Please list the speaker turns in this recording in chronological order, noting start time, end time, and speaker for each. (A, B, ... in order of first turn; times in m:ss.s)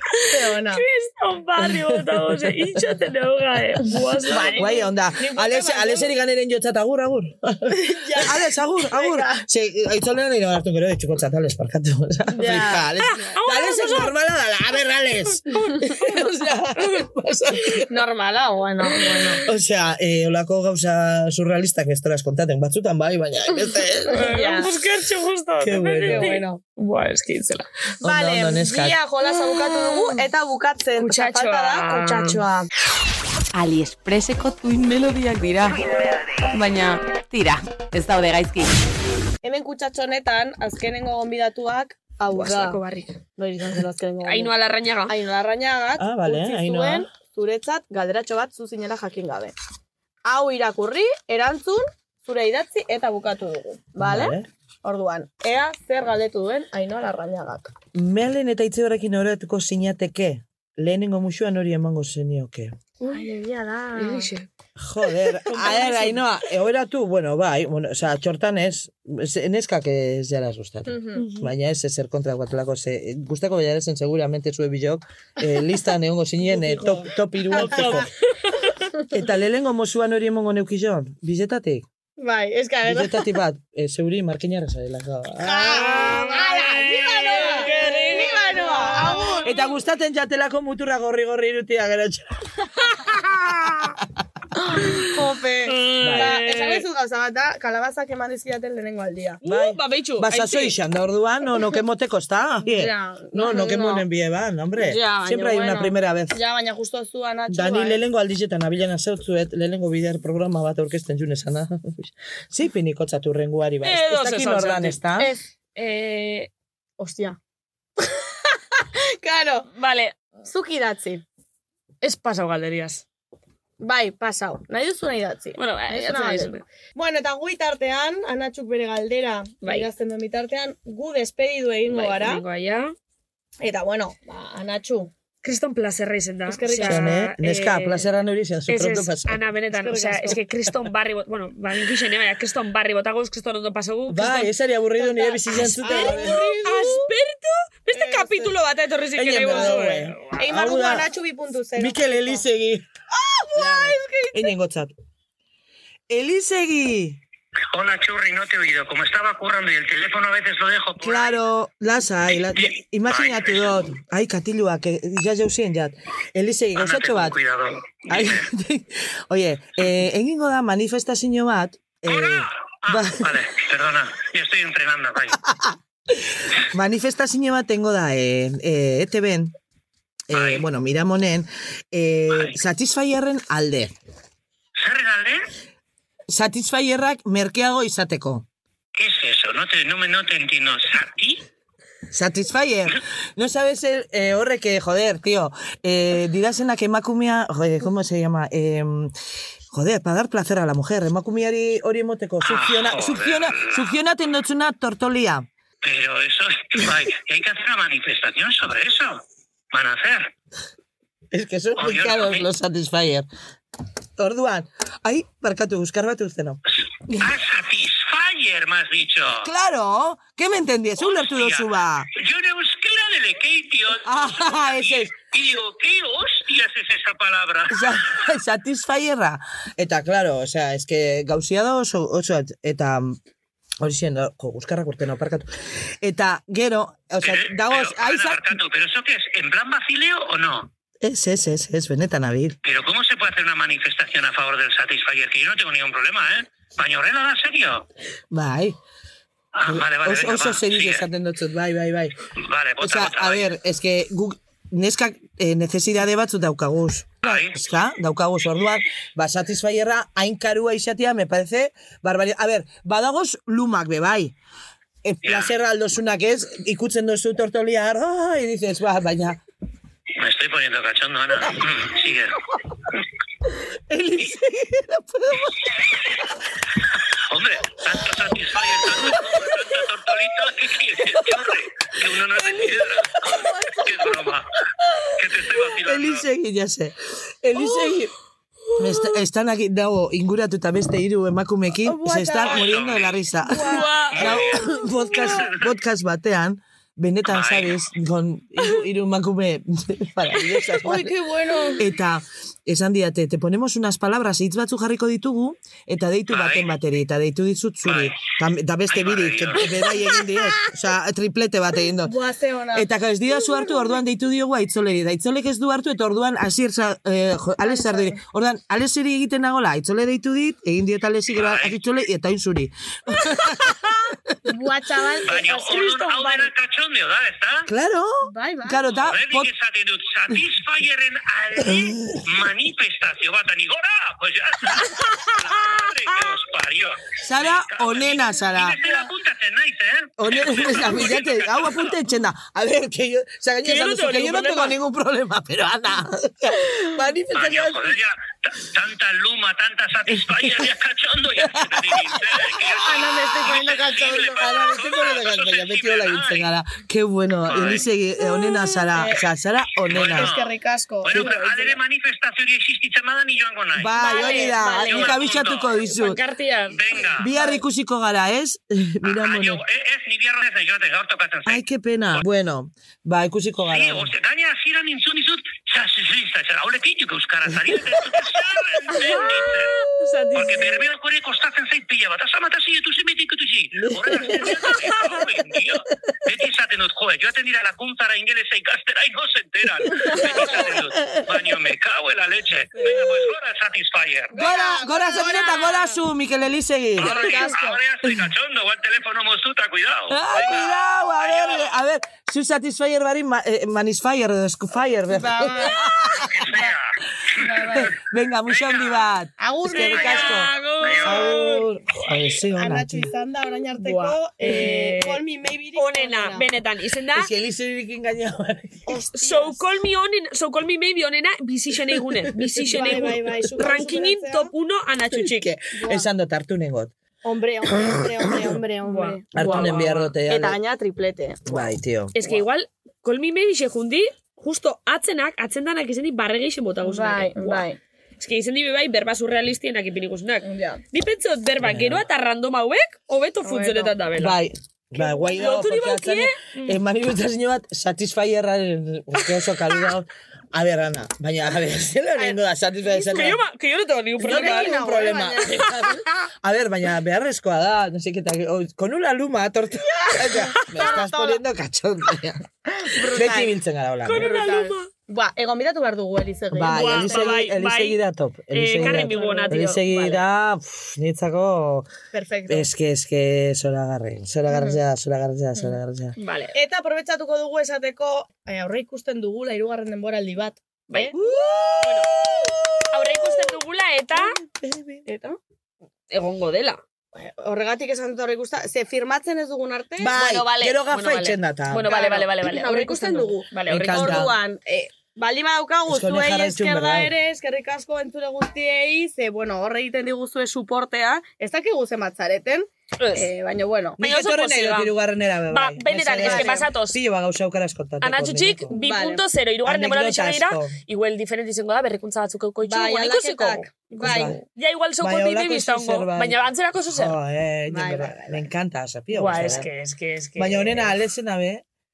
0:00.1-0:04.8 A
0:00.2-0:00.8 B
0:01.8-0:02.5 C
0:04.3-0:06.1 B
0:04.4-0:18.0 C
0:07.7-0:09.4 B
0:12.3-0:13.3 B
0:13.0-0:14.1 A
0:15.5-0:16.1 A
0:16.8-0:17.0 A
0:17.9-0:19.4 B
0:19.4-0:24.3 C
0:24.1-0:27.7 A
0:24.2-0:24.7 B
0:25.6-0:26.3 C
0:26.1-0:26.6 B
0:28.0-0:29.0 C
0:28.0-0:32.7 B
0:29.3-0:30.2 A
0:31.0-0:32.4 A
0:33.6-0:35.8 D
0:36.5-0:38.8 D
0:39.4-0:42.8 B
0:42.3-0:43.2 A
0:43.4-0:44.5 B
0:44.2-0:45.2 A
0:45.1-0:49.5 B
0:46.0-0:47.1 C
0:50.3-0:57.7 B
0:54.0-0:54.5 C
0:57.9-1:02.8 C
1:03.0-1:04.3 B
1:04.0-1:04.5 A
1:04.8-1:18.1 C
1:05.5-1:06.2 A
1:10.9-1:11.2 B
1:11.2-1:11.5 A
1:17.5-1:18.9 A
1:17.6-1:18.0 B
1:19.1-1:21.9 C
1:22.2-1:23.4 B
1:22.8-1:26.4 C
1:25.4-1:29.6 B
1:25.7-1:29.5 A
1:29.4-1:32.3 C
1:32.8-1:34.0 A
1:33.6-1:33.9 C
1:34.6-1:39.4 B
1:34.8-1:35.1 A
1:35.7-1:36.8 A
1:36.0-1:36.4 C
1:39.4-1:40.8 A
1:39.4-1:46.4 C
1:42.6-1:44.1 B
1:44.8-1:48.0 B
1:47.5-1:55.3 C
1:53.8-1:55.0 A
1:55.8-1:56.5 A
1:57.0-1:57.4 B
1:58.0-1:59.7 B
1:59.8-2:00.2 A
2:00.4-2:01.2 B
2:02.0-2:03.0 A
2:03.8-2:12.4 B
2:05.6-2:06.6 A
2:09.6-2:09.9 A
2:11.9-2:13.0 A
2:13.6-2:15.1 B
2:15.4-2:18.1 A
2:16.5-2:17.3 B
2:16.8-2:19.4 C
2:18.7-2:24.5 A
2:19.8-2:20.4 B
2:24.1-2:26.4 C
2:25.0-2:27.1 B
2:25.5-2:30.5 A
2:27.9-2:28.5 B
2:29.2-2:31.1 C
2:29.5-2:29.8 B
2:30.4-2:32.4 B
2:31.8-2:32.9 C
2:33.2-2:34.5 B
2:33.6-2:34.9 C
2:36.1-2:37.2 C
2:37.7-2:41.4 E
2:41.0-2:47.4 C
2:42.5-2:43.9 E
2:46.8-2:48.5 E
2:48.1-2:53.4 C
2:52.1-2:55.4 E
2:55.4-2:59.6 C
3:00.3-3:03.9 C
3:00.3-3:00.6 E
3:04.8-3:05.5 E
3:06.3-3:08.5 C
3:09.0-3:11.4 E
3:12.1-3:19.1 C
3:19.7-3:25.5 C
3:22.4-3:24.0 E
3:25.8-3:30.3 E
3:31.3-3:33.3 C
3:31.8-3:32.5 E
3:34.2-3:37.4 C
3:37.2-3:39.5 E
3:39.4-3:42.1 C
3:41.0-3:48.0 E
3:44.0-3:45.1 C
3:47.7-3:53.2 C
3:53.8-3:58.6 C
3:57.2-4:00.7 E
4:01.0-4:02.6 C
4:02.6-4:07.8 E
4:08.3-4:08.8 C
4:09.5-4:11.0 E
4:09.7-4:12.2 C
4:12.4-4:13.5 E
4:12.8-4:24.4 C
4:17.2-4:17.6 E
4:25.0-4:29.4 C
4:25.2-4:25.5 E
4:30.2-4:32.4 E
4:33.9-4:35.7 C
4:37.3-4:43.2 E
4:38.6-4:39.7 C
4:41.0-4:41.5 C
4:43.3-4:44.1 B
4:43.8-4:44.5 E
4:45.2-4:46.2 E
4:45.8-4:48.1 C
4:48.8-5:01.2 C
4:51.8-4:52.8 B
4:52.4-4:53.3 E
4:53.5-4:54.4 B
4:53.6-4:54.3 A
4:54.2-4:54.7 E
4:57.3-4:57.8 E
5:00.8-5:01.8 B
5:01.8-5:12.2 C
5:06.3-5:06.8 E
5:07.8-5:08.2 E
5:08.9-5:09.8 E
5:12.0-5:12.9 B
5:12.7-5:24.1 C
5:17.6-5:18.2 B
5:21.3-5:21.8 E
5:24.5-5:26.5 B
5:25.2-5:27.7 E
5:27.7-5:29.5 C
5:28.3-5:28.9 B
5:29.0-5:42.0 E
5:31.6-5:32.2 C
5:34.8-5:35.6 A
5:37.2-5:38.8 C
5:40.2-5:48.0 C
5:43.6-5:44.8 A
5:47.3-5:56.5 E
5:50.1-5:50.7 C
5:51.4-5:52.6 C
5:52.6-5:54.8 B
5:54.3-6:00.4 C
5:57.4-5:57.9 E
5:58.9-5:59.2 B
5:59.8-6:00.5 E
5:59.9-6:01.8 B
6:01.0-6:04.0 E
6:01.1-6:01.4 C
6:03.8-6:06.2 C
6:04.0-6:05.2 A
6:04.2-6:05.1 B
6:04.8-6:05.7 E
6:05.8-6:06.8 A
6:06.7-6:07.3 E
6:07.2-6:09.6 C
6:09.0-6:12.2 E
6:11.4-6:14.1 C
6:13.7-6:19.8 E
6:19.0-6:20.7 A
6:20.3-6:34.4 E
6:23.8-6:24.9 C
6:30.0-6:31.5 C
6:32.9-6:33.3 C
6:34.3-6:36.0 B
6:34.3-6:37.5 C
6:37.0-6:41.8 E
6:37.0-6:37.8 B
6:40.1-6:46.6 C
6:45.1-6:46.6 B
6:46.4-6:46.8 E
6:47.4-6:47.9 B
6:47.6-6:53.1 C
6:48.5-6:49.1 E
6:49.4-6:50.4 B
6:49.7-6:51.6 A
6:51.0-6:51.5 B
6:52.6-6:56.5 B
6:53.8-6:55.2 A
6:55.8-6:57.3 A
6:57.1-6:59.0 C
6:58.9-6:59.6 B
6:59.2-7:05.5 A
7:02.6-7:04.5 B
7:05.1-7:06.9 C
7:05.7-7:06.1 B
7:07.2-7:11.7 B
7:08.8-7:10.2 A
7:09.3-7:10.6 C
7:11.5-7:12.2 C
7:12.2-7:17.7 A
7:16.8-7:17.8 B
7:18.2-7:24.4 A
7:20.4-7:20.8 B
7:21.6-7:22.0 C
7:23.4-7:24.0 B
7:24.2-7:33.4 C
7:25.0-7:26.8 A
7:32.2-7:33.4 B
7:33.1-7:34.8 A
7:34.2-7:42.5 C
7:34.2-7:36.0 B
7:35.5-7:35.9 A
7:40.0-7:41.4 B
7:40.6-7:40.9 A
7:42.7-7:43.6 B
7:43.1-7:44.4 C
7:44.0-7:44.9 A
7:44.2-7:47.4 B
7:46.5-7:51.9 C
7:46.6-7:48.0 A
7:48.5-7:49.9 A
7:48.7-7:50.2 B
7:52.1-7:52.7 B
7:52.5-7:56.2 C
7:54.5-7:54.8 B
7:56.2-7:56.6 A
7:56.5-8:01.1 B
8:00.9-8:02.1 A
8:01.1-8:03.5 C
8:02.9-8:04.3 A
8:04.1-8:05.0 C
8:05.1-8:05.4 B
8:06.1-8:06.8 A
8:07.2-8:10.2 B
8:10.0-8:12.0 C
8:10.1-8:14.3 A
8:11.8-8:24.0 B
8:13.7-8:14.4 C
8:15.9-8:17.1 C
8:23.0-8:23.3 A
8:24.0-8:28.7 C
8:24.0-8:25.0 A
8:25.5-8:27.0 A
8:26.2-8:26.7 B
8:28.0-8:37.2 A
8:28.7-8:29.2 B
8:29.6-8:30.8 C
8:32.7-8:34.4 B
8:34.0-8:34.4 C
8:35.0-8:39.7 C
8:37.7-8:38.4 B
8:39.1-8:40.9 A
8:40.4-8:41.6 C